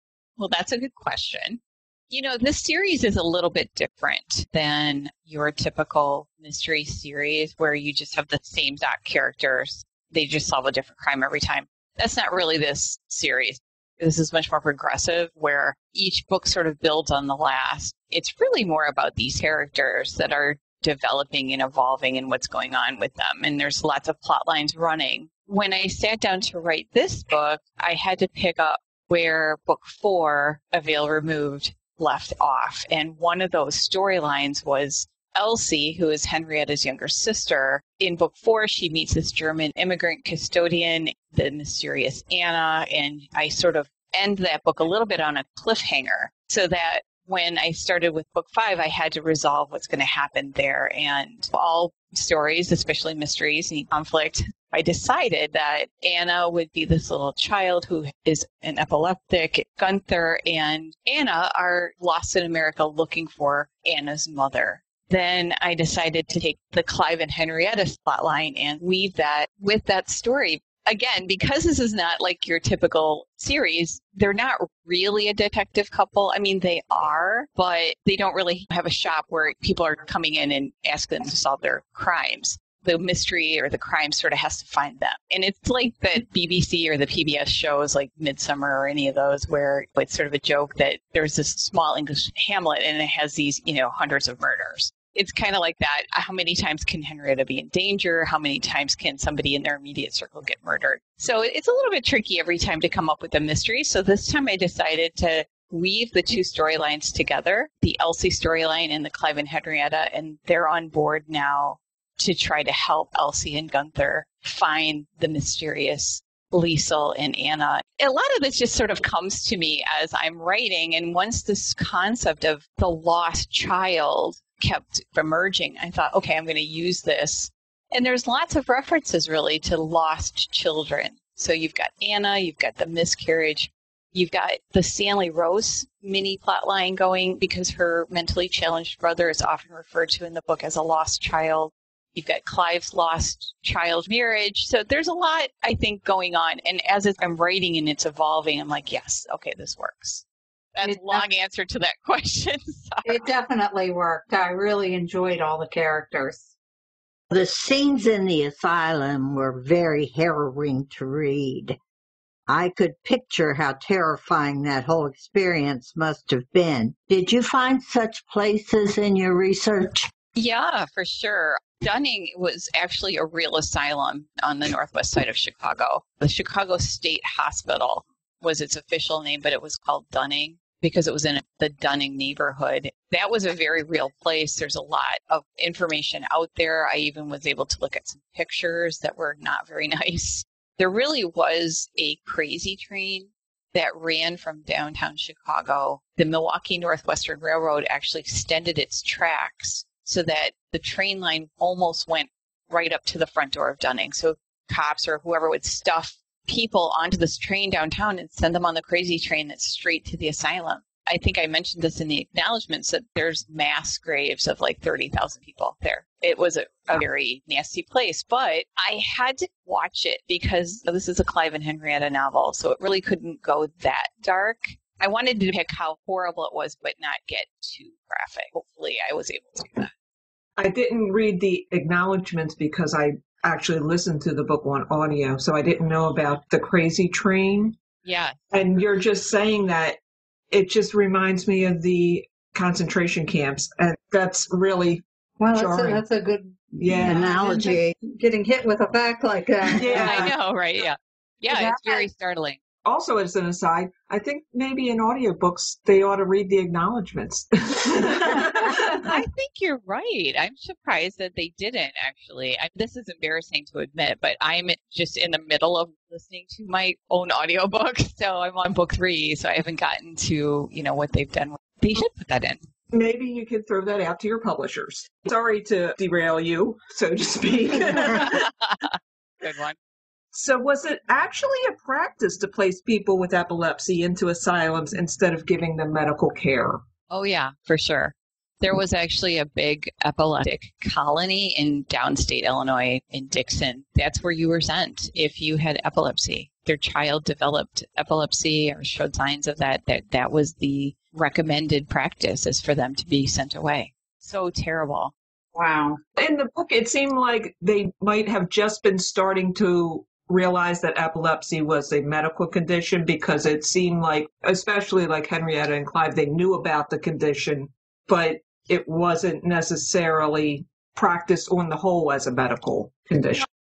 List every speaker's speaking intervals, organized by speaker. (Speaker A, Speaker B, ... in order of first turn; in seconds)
Speaker A: 0.4-153.2, 170.3-229.9, 238.0-238.4, 249.9-252.6, 259.0-272.6, 278.2-279.8, 287.1-305.1
Speaker B: 150.8-151.2, 153.1-156.5, 245.4-250.3, 251.5-252.1, 305.6-306.0
Speaker C: 157.3-161.8, 162.5-170.1, 247.0-247.9
Speaker D: 230.6-237.8, 238.5-240.0, 240.5-246.0, 246.7-247.3, 249.7-250.3, 252.8-259.0, 272.9-278.5, 280.3-286.8, 306.2-323.4